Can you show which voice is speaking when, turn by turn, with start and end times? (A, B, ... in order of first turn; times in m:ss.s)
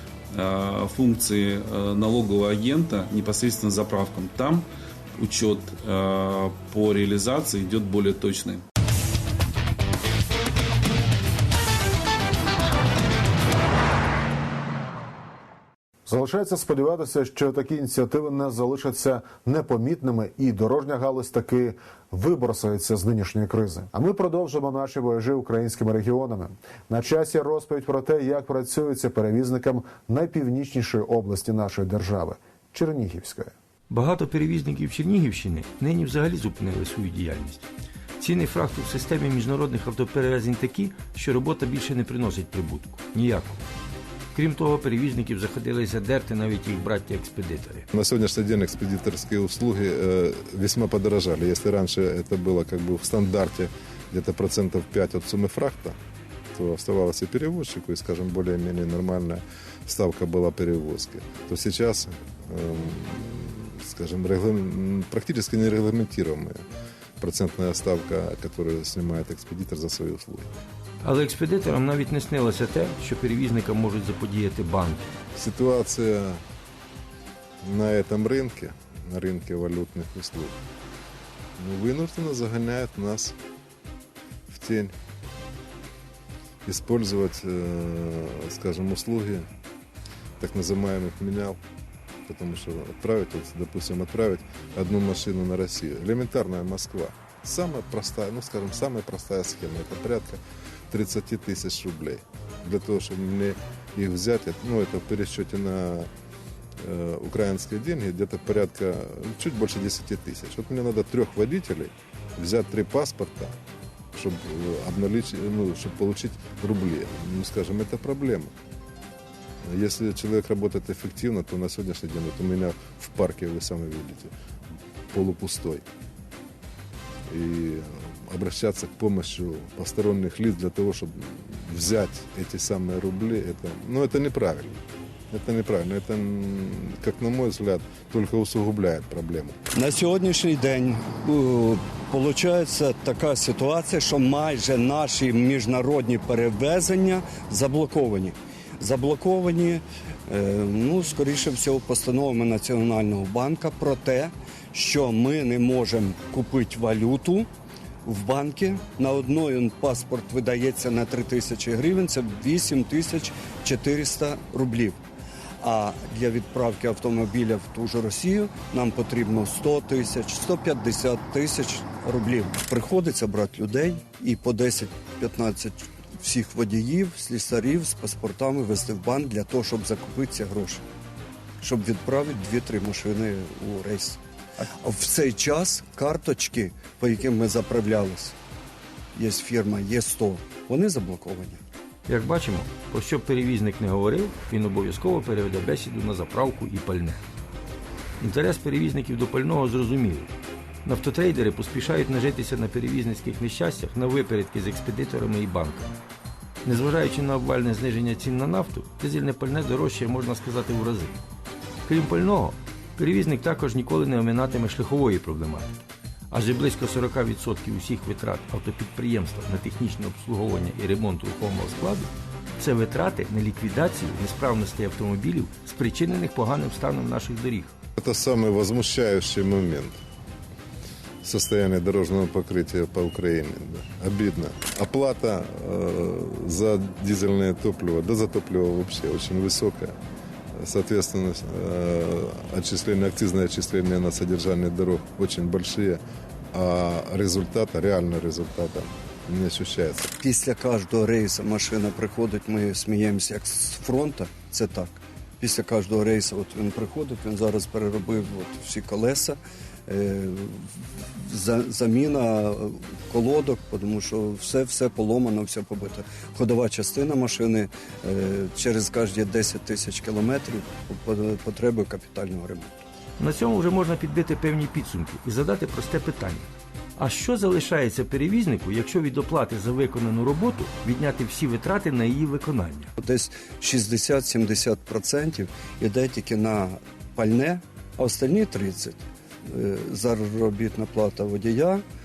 0:00.3-0:08.6 A
0:16.1-0:33.5 B
0:33.9-0:37.6 C
0:38.2-0:43.6 C
0:44.3-0:47.9 C
0:47.9-0:56.0 D
0:56.6-1:06.6 D
1:07.2-1:10.5 D
1:11.0-1:15.1 C
1:15.4-1:16.4 D
1:17.6-1:20.6 D
1:21.6-1:23.4 D
1:24.5-1:24.9 D
1:26.7-1:29.5 D
1:30.4-1:31.6 D
1:32.3-1:46.1 D
1:46.8-1:53.5 D
1:54.1-1:58.5 D
1:59.7-2:04.3 D
2:05.1-2:05.8 D
2:07.3-2:14.8 D
2:15.3-2:19.6 D
2:19.7-2:37.5 E
2:38.0-2:45.0 E
2:45.6-3:00.8 E
3:01.6-3:04.2 E
3:04.8-3:08.4 E
3:09.2-3:11.6 E
3:12.1-3:17.2 C
3:18.2-3:20.3 C
3:20.8-3:25.9 C
3:26.6-3:31.2 C
3:31.9-3:35.7 C
3:36.3-3:47.7 C
3:48.0-3:50.0 D
3:51.2-3:59.9 D
4:00.6-4:06.0 D
4:06.5-4:10.1 D
4:10.2-4:32.8 E
4:33.2-4:42.9 C
4:43.0-4:51.8 E